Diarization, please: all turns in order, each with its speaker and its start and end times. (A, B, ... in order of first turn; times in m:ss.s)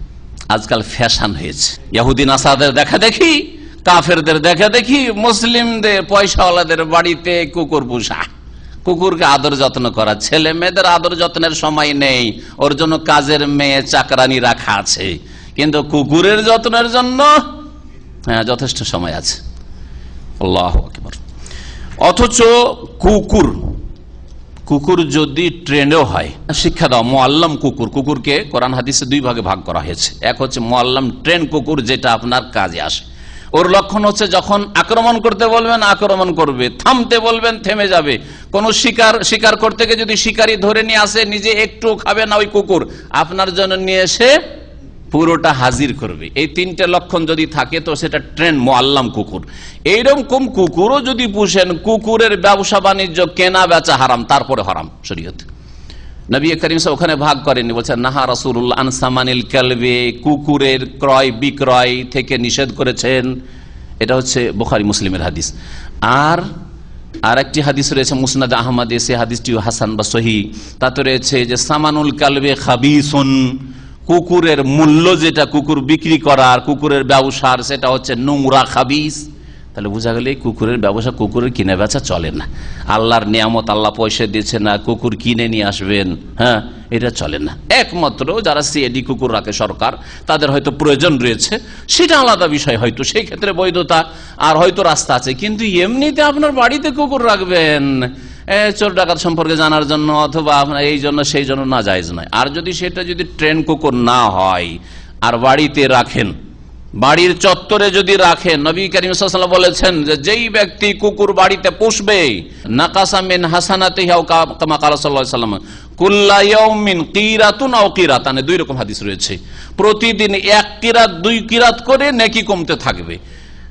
0:00.5-0:08.3 A
0:08.8-0:17.4 A
0:18.3-0:19.4 A
0:20.4-0:21.2 A
0:22.0-0:23.7 A
0:24.7-0:44.3 A
0:45.1-0:55.5 A
0:56.3-1:03.3 A
1:04.0-1:05.5 A
1:06.0-1:06.4 A
1:07.2-1:46.3 A
1:47.0-2:03.2 A